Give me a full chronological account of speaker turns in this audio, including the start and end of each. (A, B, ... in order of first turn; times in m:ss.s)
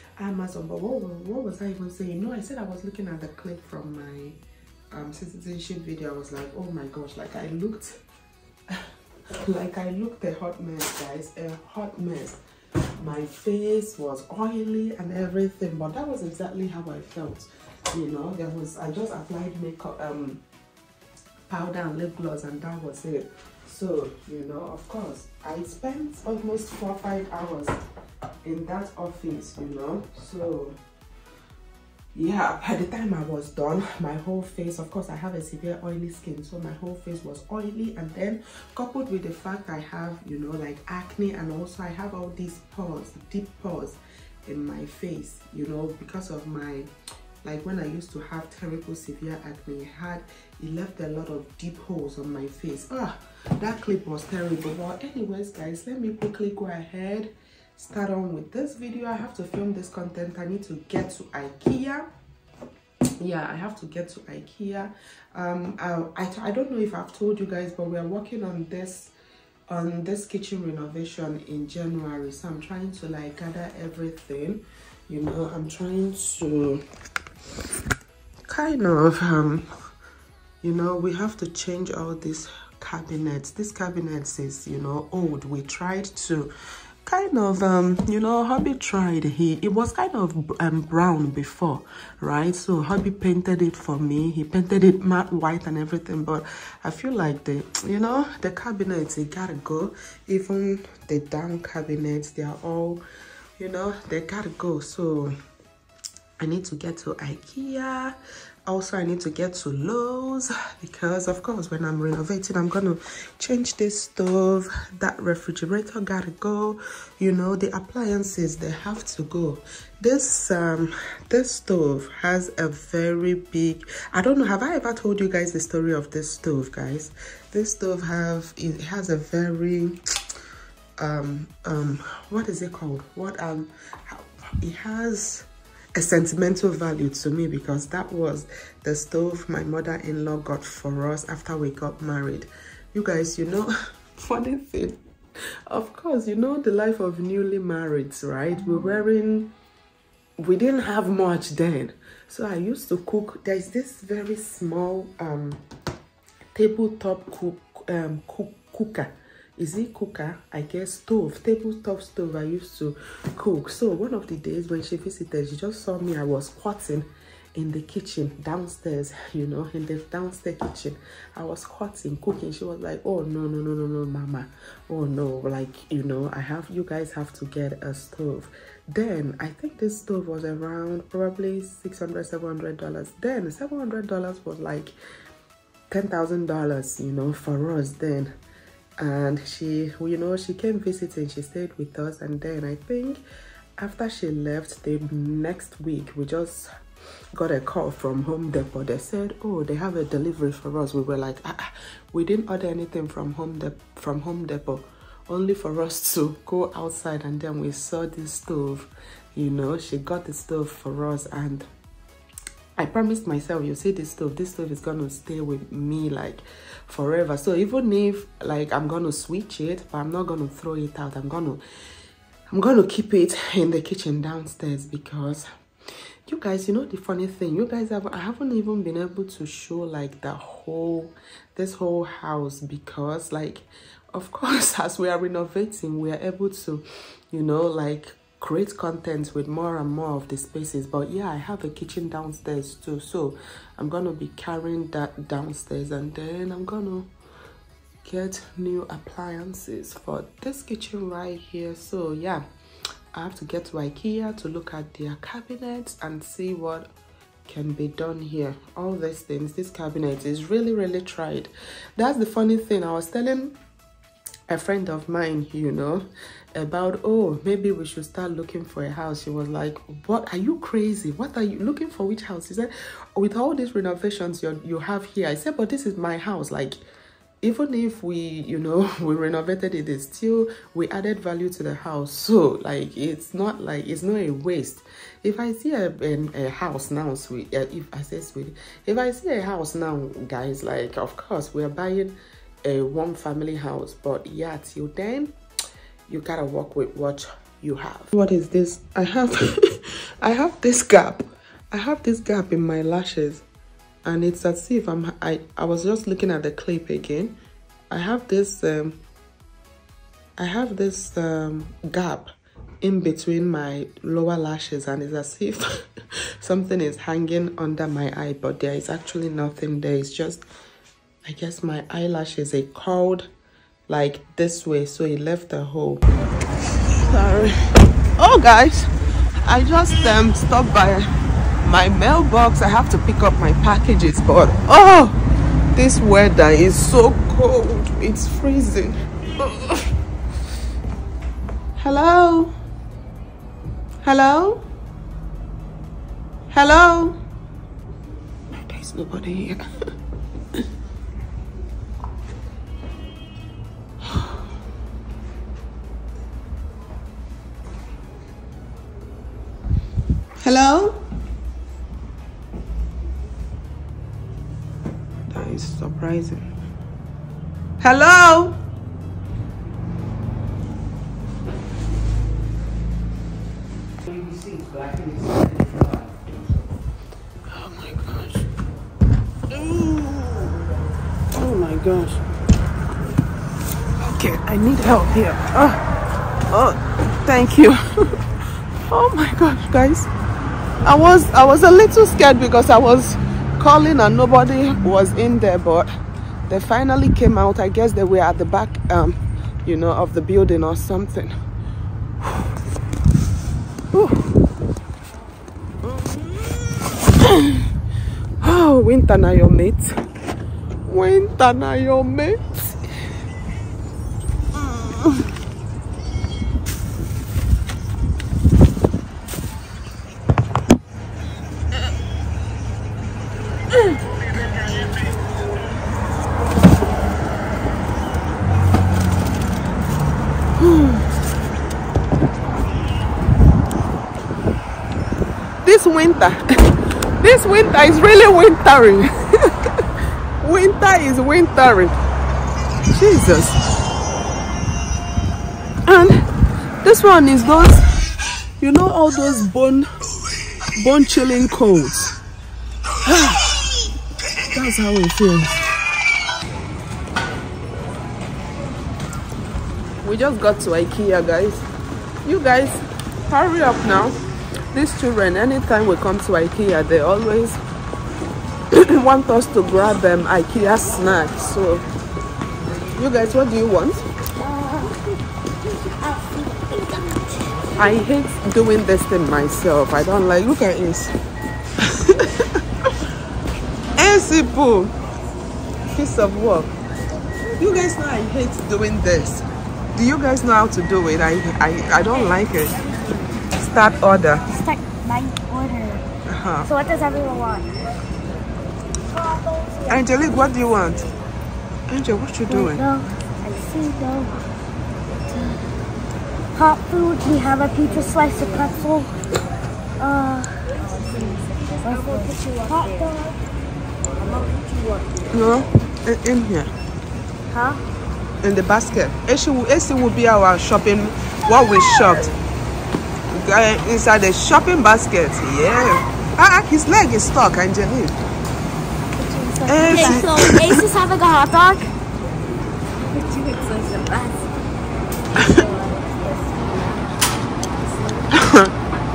0:00.2-0:04.4 A
0:04.9-0:08.0 A
0:09.4-0:12.4 A
0:13.0-0:20.4 A
0:21.5-0:27.8 A
0:28.4-0:30.8 A
0:32.1-0:46.9 A
0:47.4-1:02.1 A
1:03.2-1:09.1 A
1:09.7-1:16.8 A
1:18.5-1:19.7 A
1:20.6-1:26.5 A
1:27.1-1:43.0 A
1:43.6-1:45.3 A
1:46.4-1:48.2 A
1:48.7-2:10.0 A
2:11.0-2:25.0 A
2:25.7-2:29.5 A
2:30.4-2:35.6 A
2:36.6-3:04.9 A
3:05.9-3:08.3 A
3:09.0-3:13.2 A
3:13.8-3:16.7 A
3:17.4-3:31.7 A
3:32.8-3:41.6 A
3:42.5-3:45.5 A
3:46.3-4:07.1 A
4:08.0-4:12.4 A
4:13.1-4:16.9 A
4:17.5-4:23.6 A
4:24.5-4:36.8 A
4:37.4-4:55.3 A
4:56.1-5:03.4 A
5:04.0-5:07.4 A
5:07.9-5:09.0 A
5:10.4-5:15.7 A
5:16.4-5:20.4 A
5:21.2-5:23.3 A
5:23.9-5:26.0 A
5:27.0-5:27.6 A
5:28.2-5:28.9 A
5:29.4-5:31.1 A
5:31.6-5:35.2 A
5:35.8-5:39.8 A
5:41.8-5:42.5 A
5:44.0-5:44.6 A
5:46.5-5:47.2 A
5:48.5-5:49.6 A
6:00.4-6:01.0 A
6:05.3-6:06.4 A
6:07.8-6:08.6 A
6:14.1-6:15.8 A
6:17.5-6:18.4 A
6:19.5-6:20.6 A
6:21.3-6:22.2 A
6:24.0-6:25.8 A
6:26.5-6:28.2 A
6:28.8-6:30.1 A
6:30.8-6:35.9 A
6:36.5-6:41.3 A
6:43.9-6:44.3 A
6:45.8-6:46.4 A
6:47.1-6:47.6 A
6:48.4-6:50.0 A
6:50.9-6:52.8 A
6:54.6-6:55.2 A
7:10.6-7:11.0 A
7:15.6-7:19.5 A
7:20.4-7:22.0 A
7:22.9-7:23.6 A
7:25.9-7:26.2 A
7:26.8-7:27.8 A
7:28.6-7:29.9 A
7:30.8-7:32.2 A
7:33.0-7:33.5 A
7:34.5-7:35.6 A
7:40.0-7:41.7 A
7:42.2-7:44.2 A
7:44.7-7:47.6 A
7:48.7-7:51.9 A
7:52.9-7:54.1 A
7:54.4-7:55.0 B
7:55.7-7:57.6 B
7:57.8-8:01.1 A
8:01.8-8:02.6 A
8:04.0-8:04.9 A
8:05.9-8:06.8 A
8:07.6-8:12.8 A
8:12.8-8:13.1 B
8:13.6-8:14.5 A
8:14.5-8:16.0 B
8:16.3-8:16.7 A
8:16.6-8:17.7 B
8:19.1-8:20.0 B
8:19.9-8:21.1 A
8:21.9-8:22.8 A
8:22.5-8:24.4 B
8:25.3-8:25.6 B
8:26.5-8:29.1 B
8:30.0-8:33.3 B
8:34.2-8:35.6 B
8:35.3-8:36.7 A
8:37.5-8:37.8 B
8:38.4-8:42.4 A
8:43.3-8:48.2 A
8:49.2-8:51.9 B
8:49.7-8:50.8 A
8:53.1-8:54.5 B
8:55.4-8:55.6 A
8:55.4-8:57.1 B
8:57.6-8:58.2 B
8:58.3-8:58.7 A